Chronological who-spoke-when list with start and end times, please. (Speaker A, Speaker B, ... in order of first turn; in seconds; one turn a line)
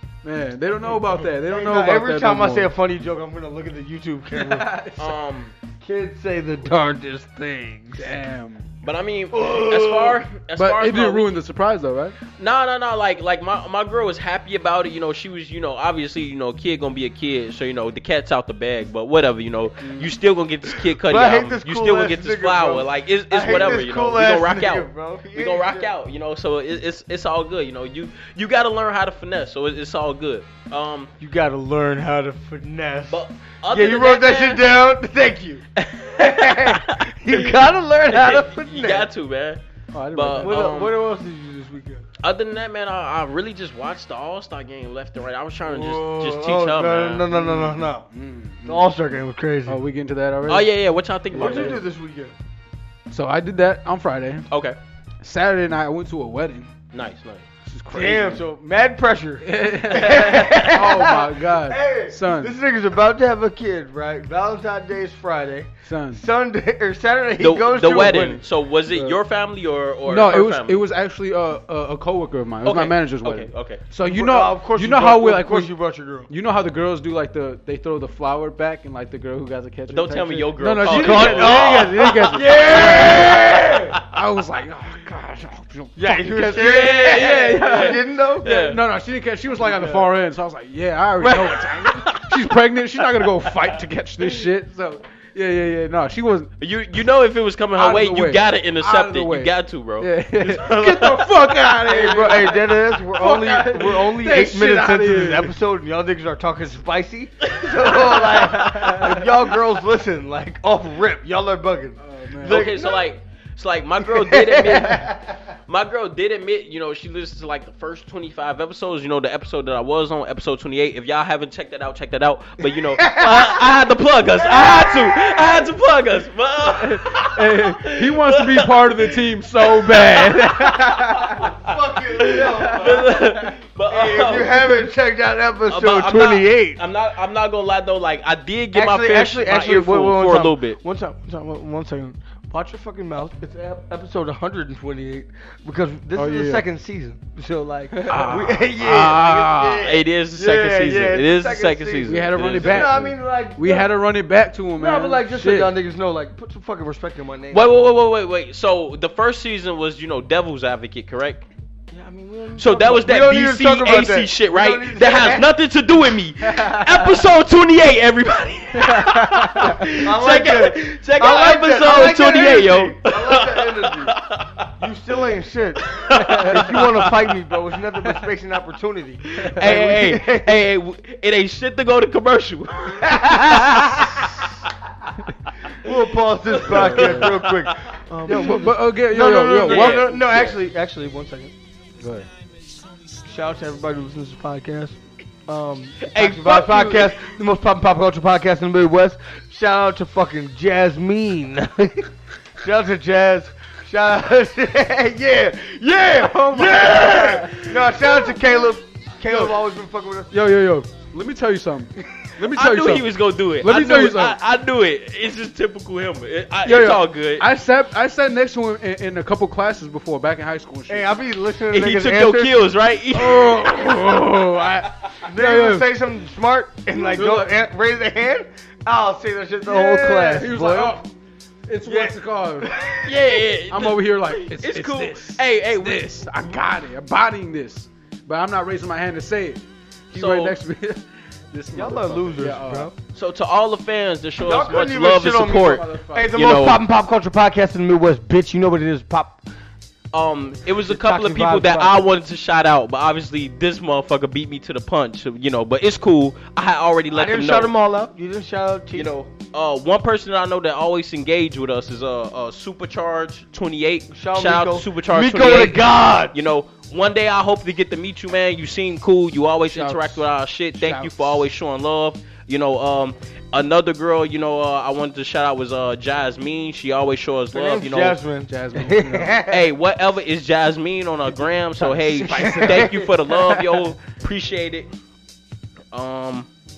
Speaker A: 0.2-2.7
Speaker B: 0.9-4.7
Speaker A: 4.3-5.1
Speaker C: 5.0-5.5
Speaker B: 5.8-8.1
Speaker A: 8.0-8.7
Speaker C: 8.8-11.3
Speaker B: 9.3-10.2
Speaker A: 10.6-12.2
Speaker C: 12.4-31.1
Speaker A: 19.8-20.1
Speaker B: 20.8-25.9
Speaker B: 31.2-35.6
Speaker C: 33.1-34.8
Speaker C: 35.8-39.6
Speaker B: 36.2-39.1
Speaker A: 39.9-40.7
Speaker C: 40.1-41.0
Speaker B: 40.4-42.0
Speaker C: 42.2-47.3
Speaker B: 45.7-48.1
Speaker A: 47.3-48.9
Speaker B: 48.6-49.8
Speaker A: 49.7-50.7
Speaker C: 50.5-51.8
Speaker B: 51.3-52.3
Speaker A: 51.3-51.8
Speaker A: 53.1-54.5
Speaker C: 54.5-54.8
Speaker A: 55.2-56.7
Speaker C: 56.9-57.4
Speaker A: 57.6-58.4
Speaker B: 57.9-68.4
Speaker A: 59.4-62.5
Speaker C: 60.1-60.7
Speaker A: 65.8-66.2
Speaker C: 67.4-70.8
Speaker A: 68.9-69.2
Speaker A: 70.0-75.7
Speaker C: 72.6-73.8
Speaker B: 74.0-76.3
Speaker A: 76.3-83.4
Speaker C: 79.9-83.4
Speaker B: 80.8-84.0
Speaker A: 84.0-96.5
Speaker B: 86.0-88.5
Speaker C: 86.5-88.8
Speaker B: 89.6-90.1
Speaker C: 91.2-93.3
Speaker C: 96.6-101.3
Speaker A: 97.8-105.5
Speaker B: 101.8-113.1
Speaker C: 107.4-109.5
Speaker A: 108.5-109.1
Speaker A: 112.0-112.6
Speaker C: 112.4-134.8
Speaker B: 114.0-115.4
Speaker B: 122.8-123.7
Speaker B: 124.4-125.4
Speaker A: 126.7-131.5
Speaker B: 131.3-136.8
Speaker A: 132.9-133.4
Speaker C: 135.7-140.8
Speaker B: 138.7-153.9
Speaker A: 146.1-146.6
Speaker A: 147.9-149.8
Speaker C: 148.1-152.9
Speaker A: 152.1-155.7
Speaker B: 154.8-157.7
Speaker C: 157.5-161.4
Speaker B: 161.9-165.5
Speaker C: 162.6-174.7
Speaker A: 169.1-169.6
Speaker B: 169.8-174.1
Speaker B: 174.8-180.7
Speaker C: 175.8-177.5
Speaker A: 176.2-176.6
Speaker C: 179.4-184.5
Speaker B: 183.0-184.2
Speaker B: 185.8-191.5
Speaker C: 186.5-187.8
Speaker A: 186.7-187.2
Speaker A: 188.3-190.4
Speaker C: 189.6-190.6
Speaker A: 192.0-192.3
Speaker B: 193.2-202.1
Speaker C: 196.0-197.2
Speaker B: 202.6-210.4
Speaker A: 206.1-208.1
Speaker A: 209.3-209.5
Speaker A: 210.3-214.4
Speaker C: 212.4-217.5
Speaker A: 216.6-221.1
Speaker B: 220.9-222.7
Speaker C: 221.7-224.2
Speaker A: 223.1-225.9
Speaker B: 225.2-231.0
Speaker A: 226.9-227.6
Speaker A: 229.7-231.0
Speaker A: 231.7-232.7
Speaker B: 231.8-233.2
Speaker C: 233.0-236.1
Speaker A: 233.7-242.9
Speaker C: 240.1-240.6
Speaker B: 241.7-242.9
Speaker C: 243.1-246.8
Speaker B: 244.4-249.4
Speaker A: 245.7-246.3
Speaker C: 250.1-257.7
Speaker B: 250.8-252.0
Speaker B: 257.1-259.1
Speaker C: 258.9-278.2
Speaker B: 264.1-266.4
Speaker A: 269.7-270.2
Speaker A: 270.8-271.3
Speaker B: 277.5-279.7
Speaker A: 278.5-279.4
Speaker C: 279.4-284.9
Speaker A: 281.8-283.7
Speaker B: 282.4-283.1
Speaker C: 285.9-286.5